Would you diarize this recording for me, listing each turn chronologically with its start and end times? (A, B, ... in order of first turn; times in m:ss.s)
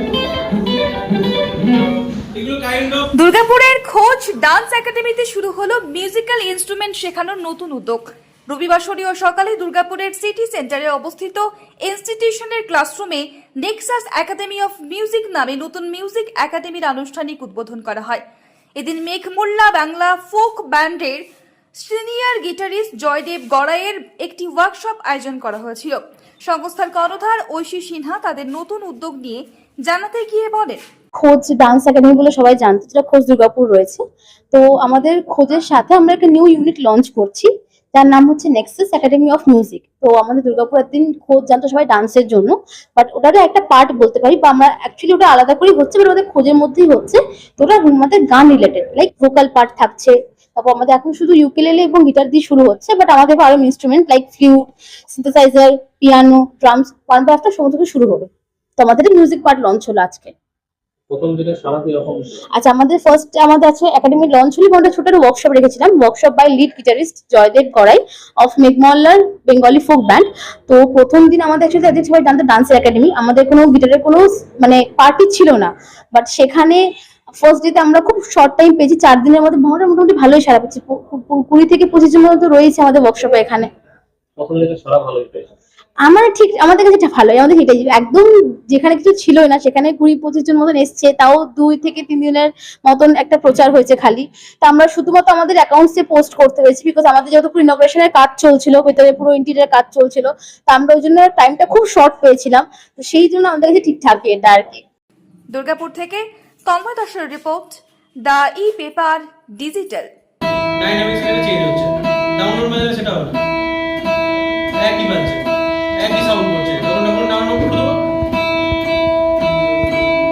0:02.3-0:03.1 A
0:03.1-0:18.2 B
0:18.8-0:21.2 B
0:21.7-0:30.8 B
0:31.2-1:00.3 C
1:01.1-1:02.4 D
1:02.5-1:16.8 C
1:17.4-1:23.7 C
1:24.4-1:25.5 D
1:26.0-1:44.8 C
1:45.5-1:50.1 B
1:50.8-1:53.4 A
1:54.8-1:55.4 A
1:56.0-1:57.9 A